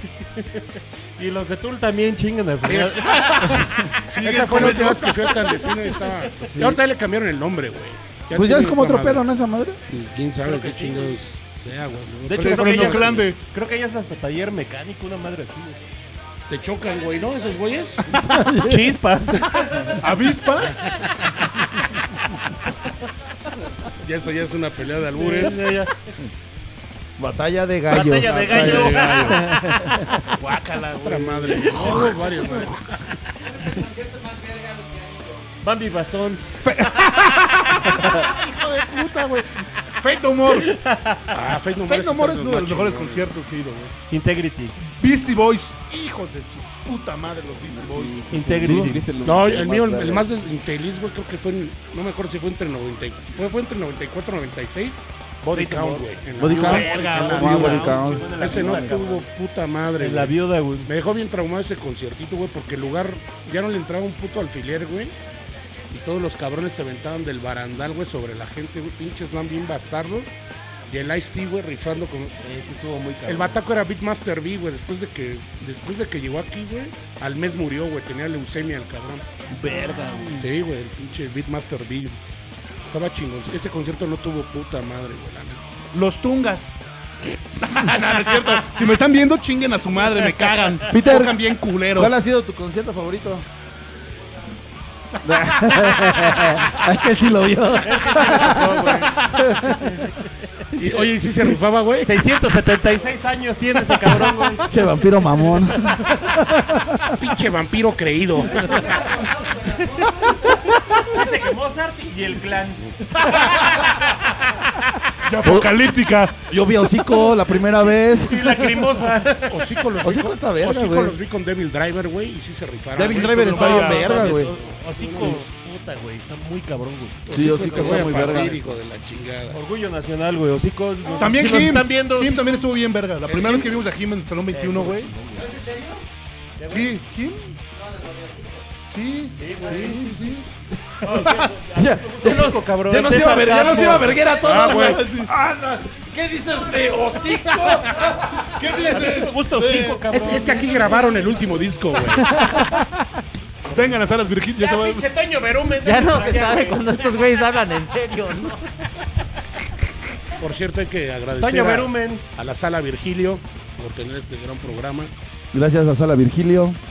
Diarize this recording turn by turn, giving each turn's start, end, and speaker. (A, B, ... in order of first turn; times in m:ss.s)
0:00.4-0:03.9 A
0:04.0-0:05.4 B
0:04.2-0:09.2 C
0:05.6-0:06.3 A
0:06.4-0:06.8 D
0:08.3-0:09.8 D
0:09.9-0:13.2 C
0:10.4-0:11.2 A
0:12.3-0:15.8 A
0:12.3-0:13.4 B
0:16.5-0:18.1 C
0:16.9-0:17.6 E
0:18.1-0:19.0 D
0:18.5-0:20.0 A
0:20.0-0:20.8 B
0:20.6-0:21.0 C
0:24.0-0:25.6 C
0:25.2-0:26.0 A
0:27.2-0:30.2 D
0:27.9-0:29.6 A
0:28.4-0:29.5 B
0:31.0-0:33.0 C
0:31.2-0:31.4 B
0:31.5-0:32.2 A
0:31.7-0:32.2 D
0:33.4-0:35.7 E
0:35.6-0:36.4 A
0:36.6-0:40.7 B
0:37.9-0:38.3 E
0:40.4-0:41.4 A
0:41.3-0:43.3 C
0:41.8-0:43.9 B
0:44.1-0:44.8 A
0:44.8-0:48.4 B
0:47.7-0:50.3 F
0:48.3-0:49.0 A
0:48.6-0:49.0 D
0:49.2-1:05.1 C
0:55.5-0:59.3 A
0:56.4-0:58.9 D
1:00.0-1:00.9 A
1:05.9-1:10.3 C
1:10.9-1:12.4 C
1:12.4-1:13.6 A
1:13.2-1:19.3 C
1:19.5-1:20.5 B
1:20.4-1:22.2 C
1:22.9-1:25.6 C
1:25.9-1:26.7 B
1:27.6-1:32.1 B
1:30.9-1:31.4 D
1:31.9-1:33.4 D
1:35.2-1:40.1 D
1:37.8-1:40.2 A
1:40.8-1:41.5 D
1:40.8-1:42.2 C
1:42.0-1:44.7 A
1:44.1-1:47.2 D
1:47.2-1:49.2 C
1:48.4-1:50.4 E
1:50.8-1:53.9 A
1:55.2-1:56.4 B
1:55.4-1:55.7 D
1:56.5-1:58.9 D
1:58.0-1:59.6 A
1:59.5-2:05.5 C
2:00.0-2:01.2 D
2:02.9-2:04.5 D
2:03.0-2:08.6 A
2:03.4-2:04.4 B
2:07.2-2:09.6 C
2:07.3-2:08.6 D
2:09.5-2:12.6 A
2:11.0-2:11.5 C
2:11.2-2:15.1 B
2:13.3-2:13.8 A
2:14.5-2:15.8 A
2:15.3-2:16.1 E
2:16.6-2:17.0 A
2:16.7-2:17.6 B
2:17.7-2:18.7 E
2:18.9-2:20.4 B
2:19.4-2:20.2 A
2:19.5-2:19.9 E
2:21.0-2:24.2 A
2:21.0-2:28.2 D
2:24.4-2:25.0 C
2:24.4-2:25.3 B
2:26.5-2:27.8 E
2:28.5-2:30.1 B
2:28.8-2:31.0 A
2:30.1-2:32.4 C
2:32.1-2:33.0 D
2:33.7-2:35.1 B
2:34.6-2:37.2 A
2:35.8-2:38.6 E
2:40.4-2:45.1 C
2:41.4-2:42.2 A
2:45.5-2:46.8 D